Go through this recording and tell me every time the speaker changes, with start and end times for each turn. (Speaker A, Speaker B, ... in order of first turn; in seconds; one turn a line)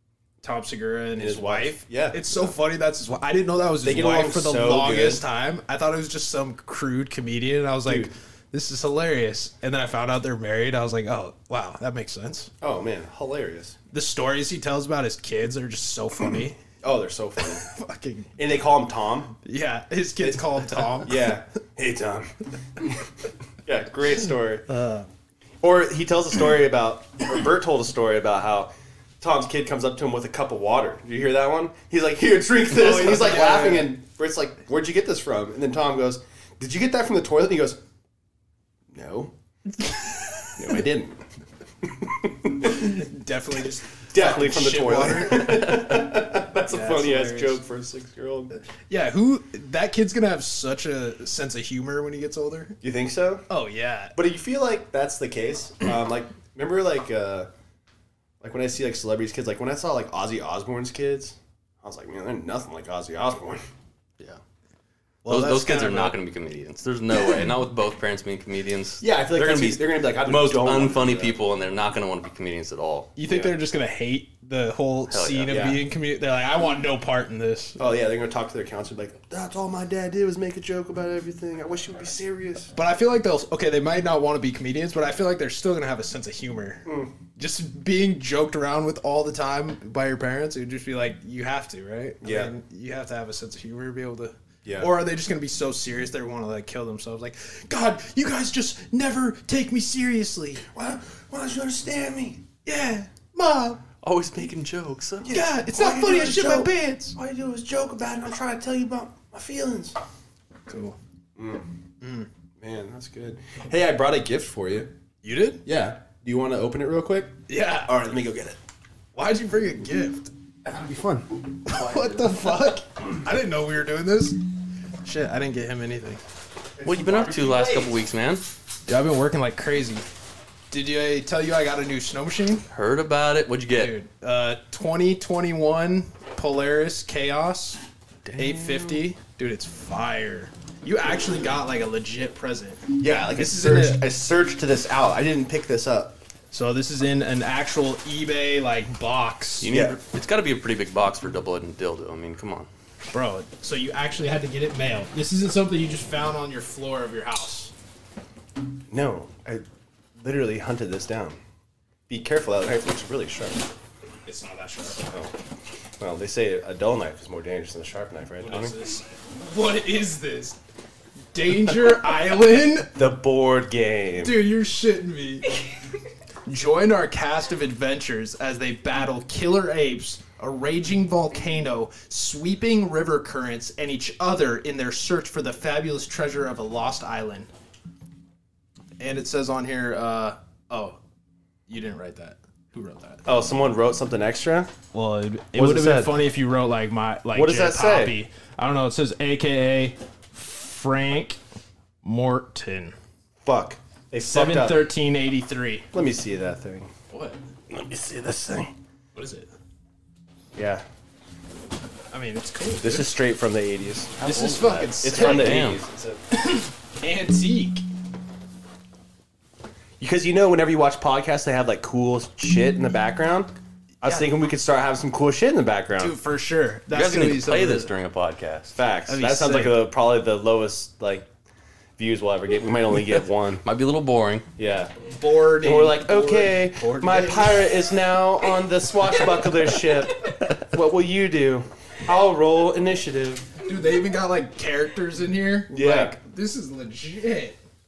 Speaker A: 0.4-12.5
Speaker B: 1.2-2.5
Speaker B: 3.8-5.2
Speaker B: 7.8-8.1
Speaker B: 12.6-13.8
Speaker A: 13.9-16.6
Speaker B: 16.8-17.7
Speaker A: 17.6-18.3
Speaker B: 18.4-19.3
Speaker A: 19.4-21.4
Speaker B: 20.2-23.0
Speaker B: 23.6-24.7
Speaker A: 24.7-25.1
Speaker B: 25.6-37.8
Speaker A: 32.7-33.9
Speaker B: 38.9-39.3
Speaker B: 40.5-41.2
Speaker B: 41.8-42.9
Speaker A: 42.6-46.1
Speaker B: 44.1-48.6
Speaker A: 46.7-47.6
Speaker A: 48.9-52.8
Speaker B: 52.8-53.5
Speaker A: 53.5-54.1
Speaker B: 54.1-57.5
Speaker B: 58.4-63.6
Speaker A: 65.2-66.2
Speaker C: 65.2-73.1
Speaker B: 69.0-71.4
Speaker A: 73.2-77.8
Speaker B: 73.3-73.5
Speaker C: 75.1-75.7
Speaker B: 75.5-75.8
Speaker B: 77.8-82.7
Speaker A: 82.7-100.6
Speaker B: 86.8-87.1
Speaker B: 92.2-92.5
Speaker B: 94.6-94.9
Speaker B: 100.7-102.4
Speaker A: 102.6-103.8
Speaker C: 104.0-105.3
Speaker B: 105.2-110.0
Speaker A: 105.3-107.2
Speaker A: 110.7-111.0
Speaker B: 111.3-111.7
Speaker A: 112.0-112.3
Speaker B: 112.6-114.9
Speaker A: 115.2-115.6
Speaker B: 115.6-118.6
Speaker A: 117.5-117.9
Speaker A: 119.1-120.3
Speaker B: 120.6-121.4
Speaker A: 121.6-124.4
Speaker C: 121.7-122.4
Speaker A: 125.0-126.2
Speaker B: 126.8-128.0
Speaker C: 126.8-128.4
Speaker A: 128.9-130.1
Speaker A: 130.7-132.6
Speaker C: 132.7-133.9
Speaker A: 133.7-137.8
Speaker C: 138.2-139.0
Speaker A: 138.4-144.0
Speaker B: 143.0-146.2
Speaker A: 146.5-149.7
Speaker C: 149.6-152.7
Speaker B: 149.7-150.0
Speaker A: 153.1-157.7
Speaker B: 158.9-159.6
Speaker B: 160.2-161.4
Speaker B: 162.1-163.6
Speaker A: 164.2-165.1
Speaker B: 166.0-168.8
Speaker A: 168.4-170.6
Speaker A: 171.3-172.9
Speaker B: 172.9-174.4
Speaker A: 174.2-175.6
Speaker A: 176.5-187.5
Speaker A: 189.0-191.0
Speaker A: 191.7-193.2
Speaker B: 193.2-194.7
Speaker A: 194.9-201.4
Speaker B: 195.5-196.2
Speaker B: 197.3-198.1
Speaker A: 202.0-202.9
Speaker B: 203.4-204.9
Speaker A: 204.2-205.9
Speaker B: 205.9-206.9
Speaker A: 207.1-207.3
Speaker B: 207.7-208.7
Speaker A: 209.1-209.5
Speaker B: 210.5-210.8
Speaker A: 212.1-213.2
Speaker B: 212.8-216.2
Speaker A: 214.2-215.7
Speaker C: 214.2-215.8
Speaker A: 216.3-217.8
Speaker B: 220.0-226.1
Speaker A: 224.0-224.3
Speaker A: 226.0-227.9
Speaker C: 226.9-228.7
Speaker B: 228.7-231.3
Speaker A: 229.1-229.8
Speaker B: 232.0-233.6
Speaker C: 233.6-234.4
Speaker B: 234.6-234.9
Speaker A: 235.1-237.7
Speaker B: 235.6-243.5
Speaker A: 243.6-247.6
Speaker B: 245.7-246.2